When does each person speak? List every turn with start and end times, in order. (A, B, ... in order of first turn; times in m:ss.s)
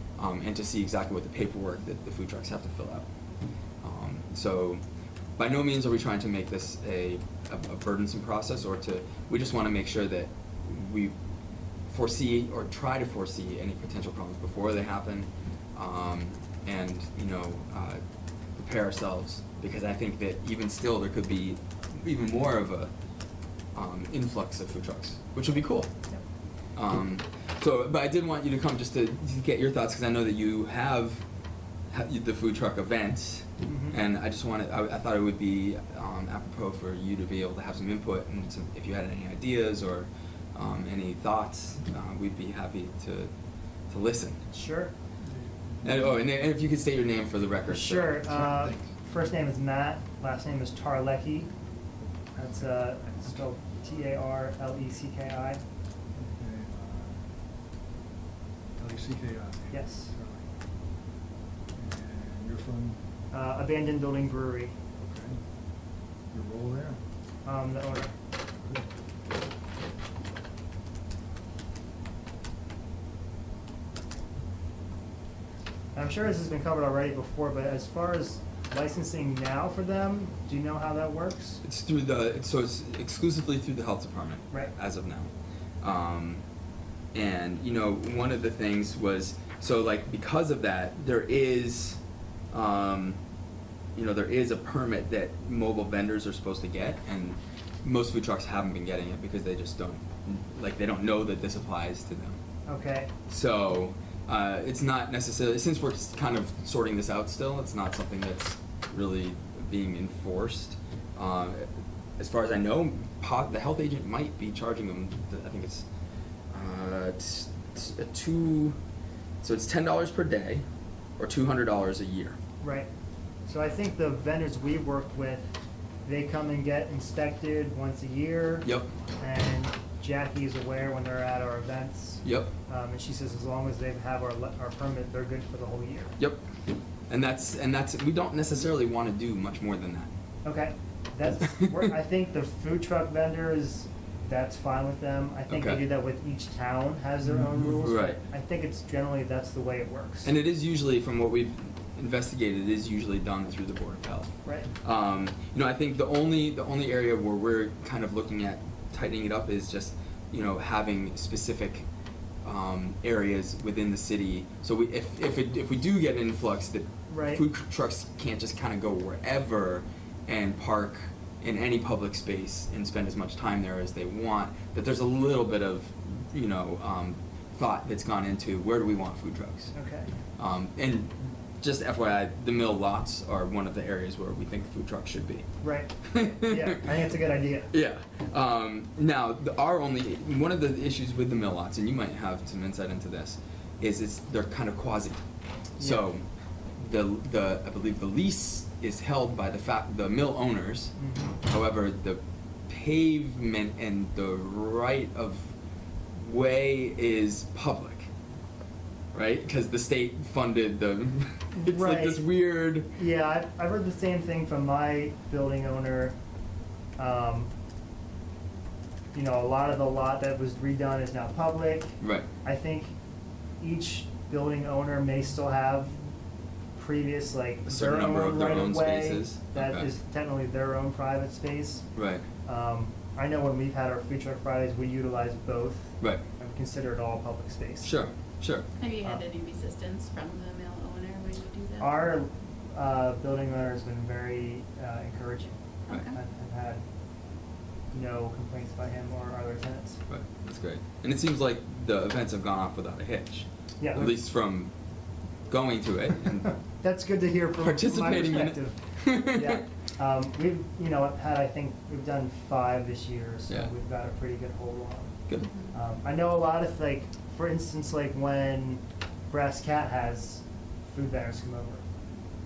0:00.2-0:03.0 A
0:03.8-0:04.8 A
0:05.4-0:11.1 A
0:11.9-0:18.0 A
0:18.5-0:22.9 A
0:23.7-0:25.9 A
0:26.8-0:31.2 A
0:31.9-0:43.3 A
0:33.7-0:34.0 B
0:43.9-0:44.4 A
0:44.5-0:44.9 B
0:45.2-0:46.2 C
0:45.8-0:48.3 A
0:47.7-0:51.5 B
0:48.4-0:48.8 C
0:52.4-0:55.6 B
0:56.1-0:57.2 C
0:58.7-1:00.5 C
0:59.7-1:00.1 B
1:01.7-1:03.0 C
1:03.3-1:04.8 B
1:05.0-1:05.4 C
1:06.3-1:07.0 C
1:07.4-1:08.2 B
1:08.6-1:08.9 C
1:15.9-1:21.6 B
1:21.6-1:25.3 A
1:25.8-1:26.4 A
1:27.1-1:32.0 A
1:32.5-1:33.2 A
1:34.0-1:42.4 A
1:42.7-1:43.1 B
1:43.3-1:51.7 A
1:52.2-1:55.8 A
1:56.5-1:58.8 A
1:59.4-2:00.6 A
2:01.2-2:02.4 A
2:02.6-2:02.9 B
2:03.5-2:05.5 B
2:06.0-2:08.7 B
2:08.6-2:08.9 A
2:09.2-2:16.2 B
2:12.2-2:12.5 A
2:16.2-2:16.4 A
2:17.1-2:20.1 A
2:20.4-2:30.3 B
2:25.5-2:25.8 A
2:27.8-2:28.2 A
2:30.2-2:41.8 A
2:34.4-2:34.7 B
2:42.4-2:59.7 A
2:47.1-2:47.4 B
2:59.7-3:00.1 B
3:00.4-3:05.5 A
3:05.6-3:07.7 B
3:06.0-3:06.8 A
3:07.7-3:15.2 A
3:15.8-3:16.1 B
3:15.8-3:16.2 A
3:16.8-3:25.5 A
3:21.0-3:21.4 B
3:26.2-3:28.1 A
3:29.1-3:32.9 A
3:31.5-3:32.2 B
3:32.9-3:36.1 B
3:37.0-3:37.5 B
3:39.1-3:42.9 B
3:42.0-3:42.3 A
3:43.6-3:46.0 B
3:46.8-3:51.8 B
3:47.7-3:49.9 A
3:51.9-3:52.2 A
3:52.4-3:57.9 B
3:57.8-3:58.7 A
3:58.8-4:02.1 D
4:01.8-4:06.8 B
4:05.9-4:06.2 D
4:07.9-4:10.0 B
4:10.1-4:14.7 A
4:13.8-4:14.2 B
4:15.5-4:16.5 A
4:16.4-4:25.2 B
4:17.6-4:19.6 A
4:25.3-4:25.7 D
4:25.7-4:31.8 B